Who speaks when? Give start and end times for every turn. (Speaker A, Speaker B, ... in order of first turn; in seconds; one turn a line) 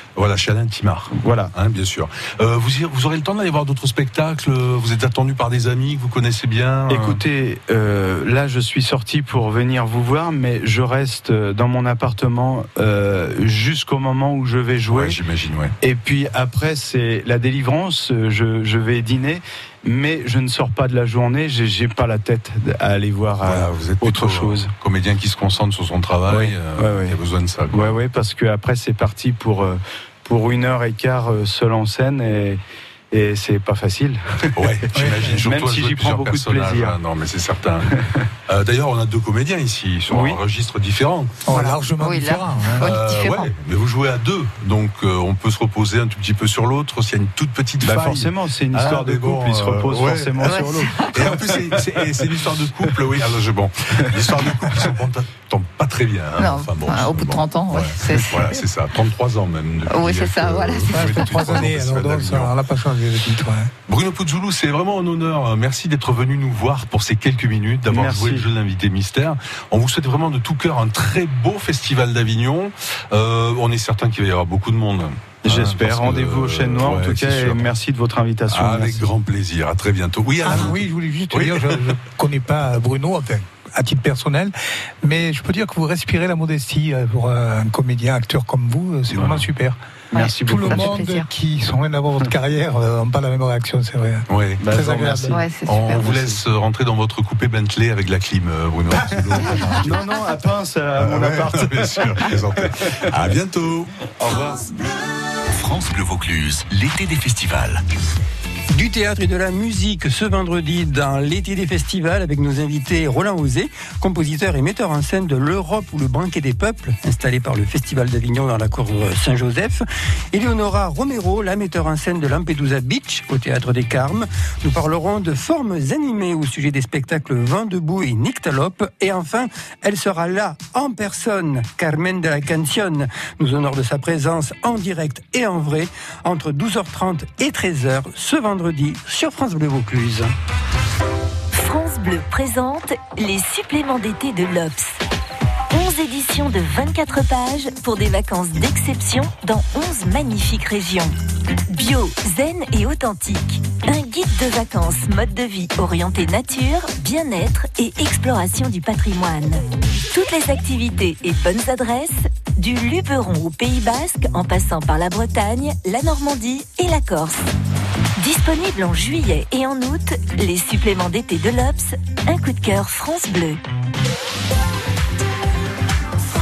Speaker A: 0.1-7.2
Speaker B: 1.1-1.5
Speaker B: 6.9-15.2
Speaker A: 14.9-15.7
Speaker B: 15.8-24.7
Speaker A: 23.4-28.0
Speaker B: 26.3-27.2
Speaker B: 27.7-32.6
Speaker B: 33.1-37.0
Speaker A: 34.5-37.9
Speaker C: 35.0-35.4
Speaker B: 37.9-38.2
Speaker A: 38.5-41.4
Speaker B: 40.1-40.4
Speaker C: 41.5-42.9
Speaker D: 41.5-43.5
Speaker A: 42.8-62.5
Speaker B: 47.8-52.4
Speaker D: 50.5-51.3
Speaker D: 56.4-58.5
Speaker D: 59.9-61.7
Speaker C: 60.9-63.7
Speaker A: 63.9-77.7
Speaker B: 67.9-68.5
Speaker B: 75.4-79.0
Speaker A: 78.5-80.8
Speaker C: 80.4-89.8
Speaker A: 81.3-81.9
Speaker B: 90.1-91.0
Speaker D: 90.1-91.3
Speaker C: 90.4-95.4
Speaker A: 94.3-94.6
Speaker B: 94.6-95.4
Speaker D: 95.3-96.1
Speaker A: 95.7-100.0
Speaker B: 96.1-96.3
Speaker B: 99.6-103.1
Speaker A: 101.0-103.9
Speaker E: 105.5-107.8
Speaker F: 108.7-140.3
Speaker G: 141.5-145.0
Speaker G: 145.7-151.1
Speaker G: 151.7-167.4
Speaker G: 168.2-173.6